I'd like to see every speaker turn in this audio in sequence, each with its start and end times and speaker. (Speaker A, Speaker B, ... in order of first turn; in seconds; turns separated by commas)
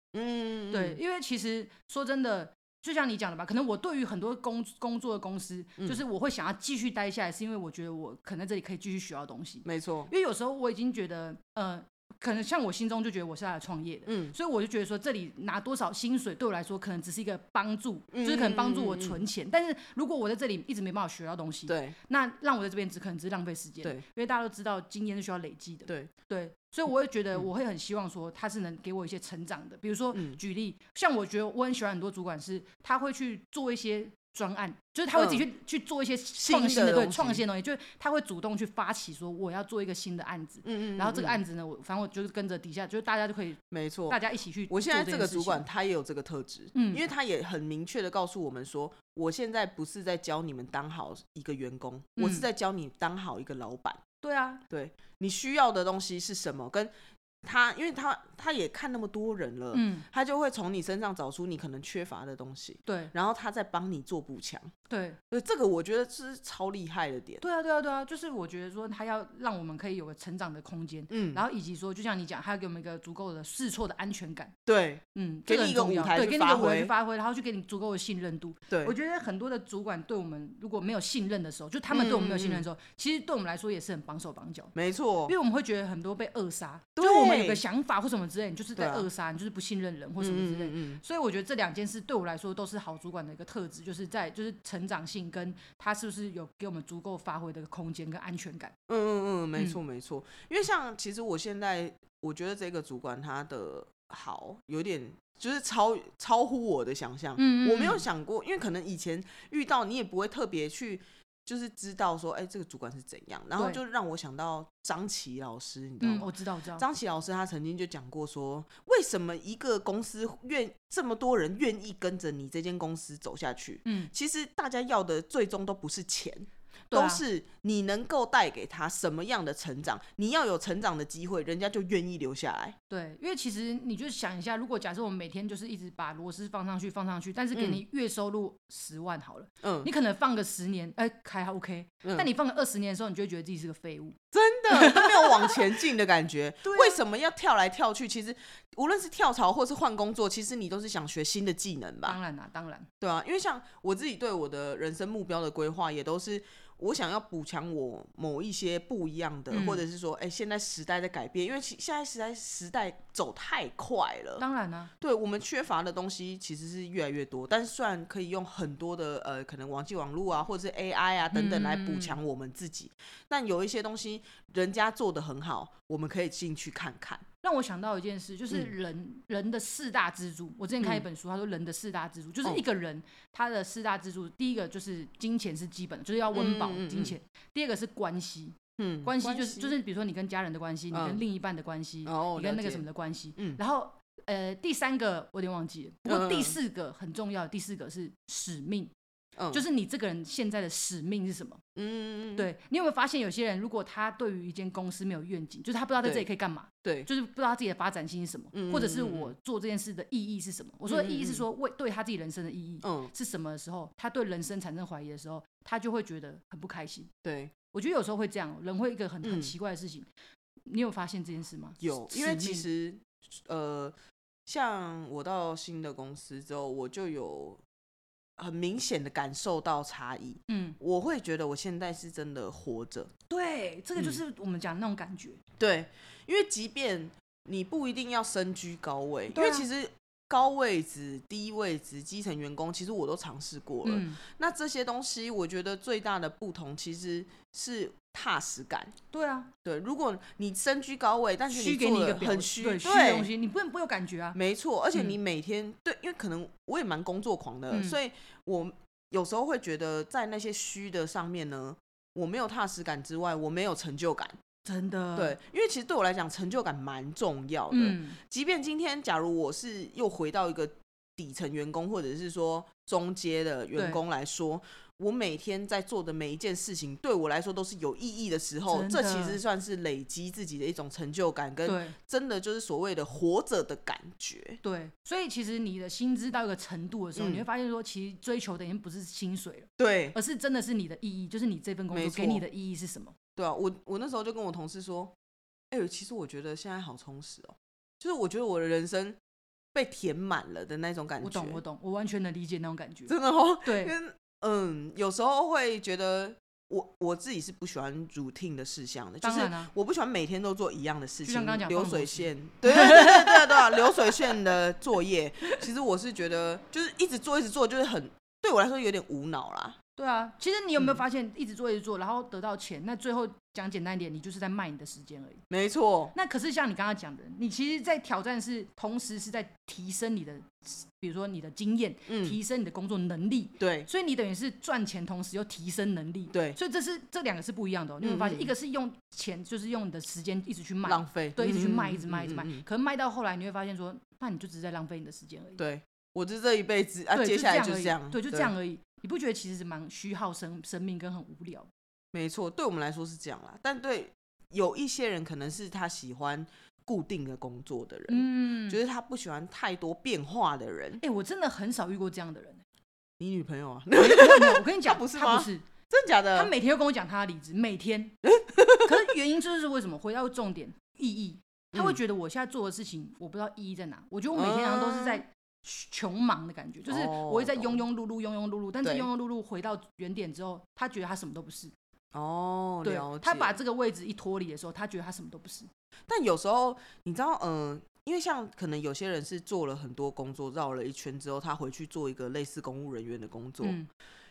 Speaker A: 0.1-1.0, Speaker B: 0.7-45.6, Speaker A: 9.7-10.1, Speaker A: 14.1-14.3, Speaker A: 18.1-19.2, Speaker A: 21.7-22.0, Speaker A: 30.1-30.4, Speaker A: 35.1-35.5, Speaker A: 36.4-37.4, Speaker A: 40.6-41.4, Speaker A: 43.7-44.2, Speaker A: 44.7-54.0, Speaker B: 46.8-47.0, Speaker B: 52.2-52.5, Speaker B: 54.2-54.6, Speaker A: 54.7-56.9, Speaker A: 57.4-64.7, Speaker B: 59.7-60.1, Speaker B: 62.9-63.1, Speaker B: 64.9-65.2, Speaker A: 65.3-67.4, Speaker B: 67.4-74.5, Speaker A: 71.1-71.4, Speaker A: 74.7-76.9, Speaker B: 75.1-84.7, Speaker A: 78.7-79.0, Speaker A: 81.9-82.7, Speaker A: 84.7-85.3, Speaker B: 85.3-98.8, Speaker A: 87.0-87.6, Speaker A: 88.8-89.1, Speaker A: 90.2-91.0, Speaker A: 98.9-132.8, Speaker B: 107.4-108.0, Speaker B: 116.0-116.8, Speaker B: 123.9-124.1, Speaker B: 126.9-127.2, Speaker B: 132.9-144.2, Speaker A: 137.5-137.8, Speaker A: 139.6-139.9, Speaker A: 144.3-152.2, Speaker B: 144.7-145.6, Speaker B: 146.6-147.0, Speaker B: 152.1-152.9, Speaker A: 153.0-164.4, Speaker B: 159.5-159.8, Speaker B: 164.4-164.9, Speaker A: 165.0-177.2, Speaker B: 171.3-172.2, Speaker B: 177.4-198.9, Speaker A: 180.8-181.1, Speaker A: 186.3-187.2, Speaker A: 188.8-189.8, Speaker A: 190.9-191.2, Speaker A: 192.1-192.8, Speaker A: 196.1-196.6, Speaker A: 199.4-199.6, Speaker B: 199.5-201.6, Speaker A: 201.8-202.5, Speaker B: 202.4-217.1, Speaker A: 206.8-207.1, Speaker A: 208.5-209.3, Speaker A: 210.9-211.4, Speaker A: 212.8-213.1, Speaker A: 217.2-217.5, Speaker B: 217.7-220.1, Speaker A: 219.2-219.5, Speaker B: 220.7-222.7, Speaker A: 221.8-223.9, Speaker A: 224.5-227.6, Speaker A: 228.4-233.1, Speaker B: 230.5-230.8, Speaker B: 233.3-235.4, Speaker A: 235.6-248.9, Speaker B: 239.3-239.7, Speaker B: 243.8-244.2, Speaker B: 249.1-249.5, Speaker A: 249.6-253.3, Speaker B: 251.5-254.4, Speaker A: 254.3-264.4, Speaker B: 257.7-258.0, Speaker B: 264.6-265.4, Speaker A: 265.2-284.6, Speaker B: 267.7-268.2, Speaker B: 273.8-274.0, Speaker B: 278.7-279.4, Speaker B: 281.6-282.0, Speaker B: 284.6-293.1, Speaker A: 287.2-287.4, Speaker A: 289.8-290.2, Speaker A: 291.9-292.4, Speaker A: 293.4-295.1, Speaker A: 295.7-299.2, Speaker A: 299.7-301.6, Speaker B: 301.2-304.0, Speaker A: 303.1-319.8, Speaker B: 309.2-309.7, Speaker B: 311.2-314.3, Speaker B: 320.0-325.4, Speaker A: 325.5-326.1, Speaker B: 326.1-345.6, Speaker A: 332.1-332.4, Speaker A: 333.6-333.9, Speaker A: 336.3-336.6, Speaker A: 338.0-338.5, Speaker A: 340.9-342.6, Speaker A: 345.6-348.5, Speaker B: 347.1-351.7, Speaker A: 352.1-361.0, Speaker B: 358.1-358.8, Speaker B: 361.0-362.6, Speaker A: 363.2-366.5, Speaker B: 364.0-365.7, Speaker B: 366.3-368.2, Speaker A: 368.2-369.1, Speaker B: 368.8-381.7, Speaker A: 371.7-372.0, Speaker A: 374.3-375.2, Speaker A: 376.9-377.8, Speaker A: 378.8-379.1, Speaker A: 382.1-383.6, Speaker B: 382.8-385.7, Speaker A: 386.1-393.8, Speaker B: 393.6-393.9